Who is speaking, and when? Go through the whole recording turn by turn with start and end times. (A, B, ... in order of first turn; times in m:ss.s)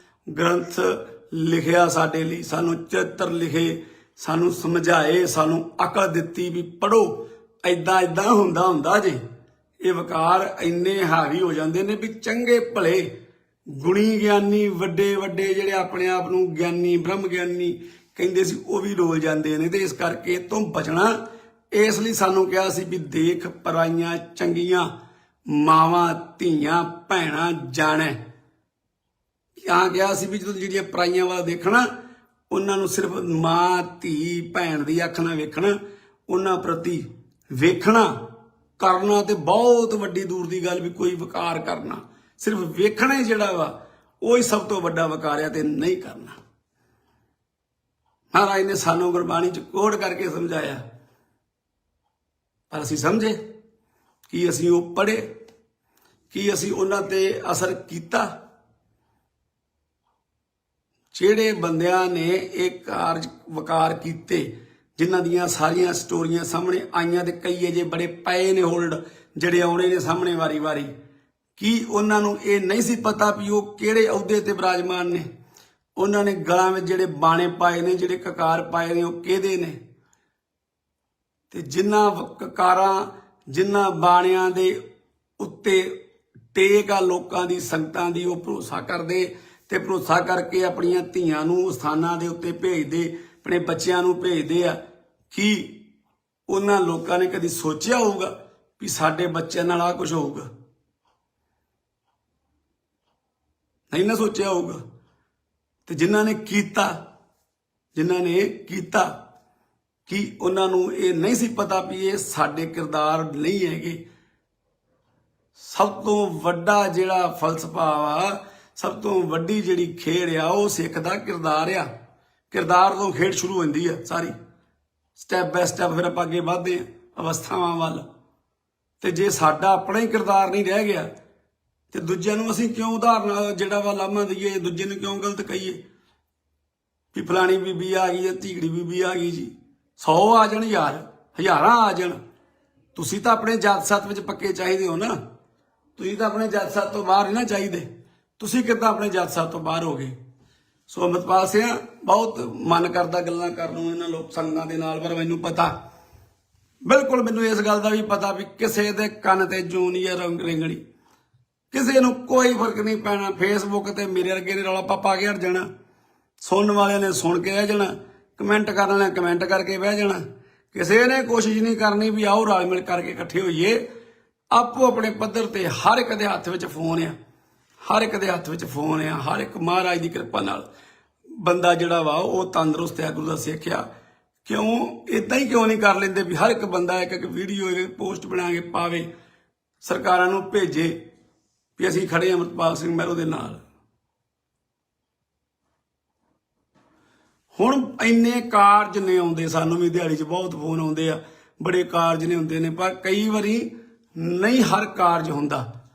0:00.3-0:09.2 A
0:09.8-0:13.1 A
0:13.7-0:21.1 A
0:21.7-0:24.9 A
0:25.5-0:28.2 A
0:29.7-0:31.9 A
0:32.5-0:35.8 A
0:36.3-0:38.2 A
0:38.8-0:46.4 A
0:48.3-0:50.8 A
0:52.7-0:53.4 A
0:54.3-0:55.2 A
0:56.3-0:58.3 A
1:01.1-1:10.9 A
1:11.6-1:15.3 A
1:16.0-1:19.8 A
1:21.5-1:24.8 A
1:25.4-1:26.0 A
1:26.5-1:34.8 A
1:35.3-1:35.7 A
1:36.5-1:40.5 A
1:43.9-1:44.8 A
1:45.9-1:47.0 A
1:47.9-1:49.1 A
1:50.1-1:54.0 A
1:55.6-2:01.9 A
2:02.5-2:04.3 A
2:05.2-2:08.0 A
2:09.0-2:11.1 A
2:11.9-2:15.8 A
2:17.1-2:22.2 A
2:22.9-2:25.2 A
2:26.0-2:27.9 A
2:28.4-2:30.1 A
2:30.9-2:35.7 A
2:36.9-2:40.8 A
2:41.7-2:45.6 A
2:46.4-2:53.8 A
2:54.5-2:57.2 A
2:57.8-3:00.6 A
3:01.4-3:03.9 A
3:04.4-3:09.1 A
3:09.8-3:11.0 A
3:11.8-3:13.6 A
3:17.5-3:25.6 A